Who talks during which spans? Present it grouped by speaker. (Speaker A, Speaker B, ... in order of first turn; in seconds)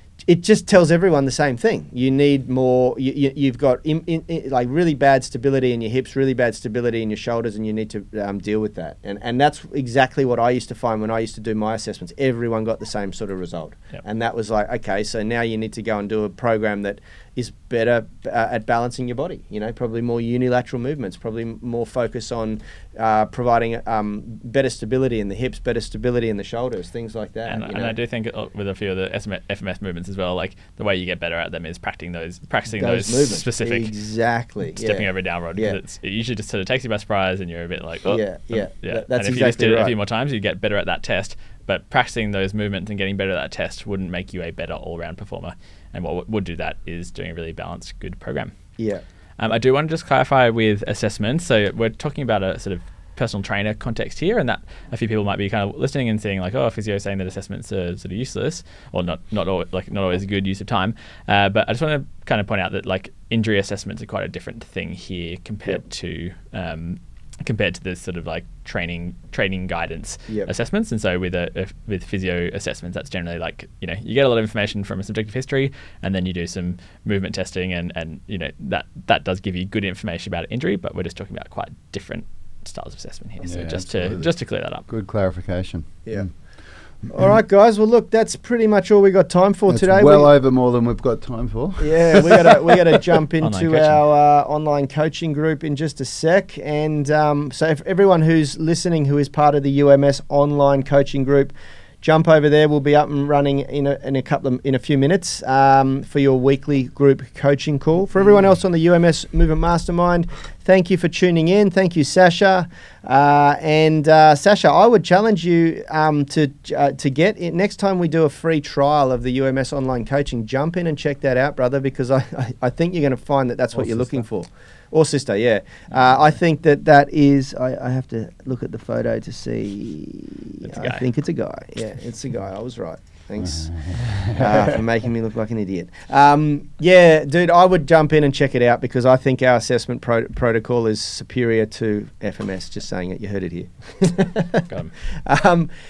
Speaker A: 0.2-28.0, 32.7-35.8, 38.1-40.0, 48.8-49.0, 86.0-86.3, 87.1-90.3, 91.8-144.7, 145.2-145.7
Speaker B: 27.5-33.9, 34.7-48.5, 49.4-84.8, 93.4-94.0, 130.6-131.1
Speaker C: 83.4-86.3, 89.7-92.8, 123.9-124.2, 133.5-134.5